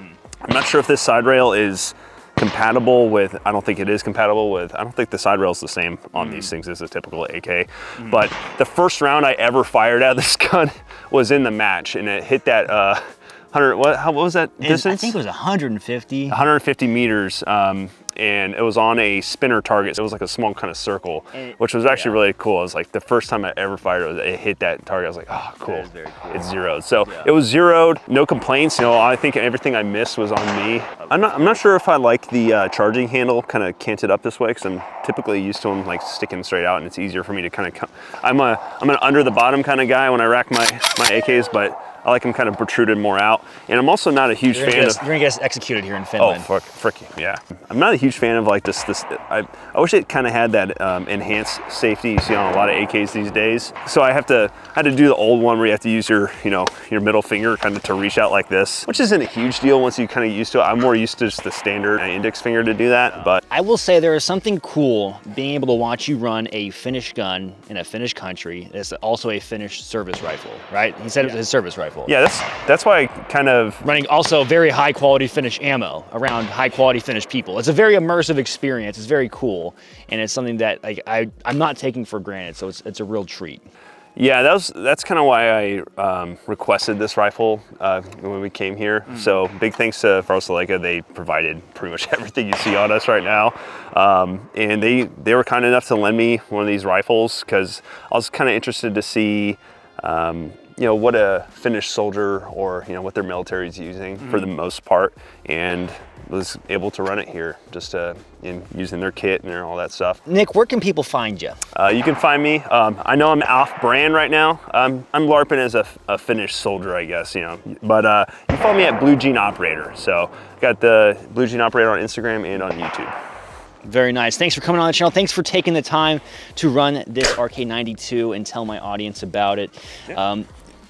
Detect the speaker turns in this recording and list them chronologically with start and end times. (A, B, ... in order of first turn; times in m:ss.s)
0:00.4-0:13.0 A
0:06.2-0:06.5 B
0:13.5-0:15.2 A
0:14.6-0:16.4 B
0:16.3-0:45.1 A
0:21.3-0:22.2 B
0:25.6-0:27.3 B
0:31.0-0:31.6 B
0:44.5-0:46.5 B
0:46.2-1:03.4 A
1:03.5-1:12.1 B
1:12.0-1:13.8 A
1:13.8-1:23.6 B
1:24.2-1:50.2 A
1:50.2-1:51.6 B
1:51.7-2:03.1 A
2:03.8-2:10.5 B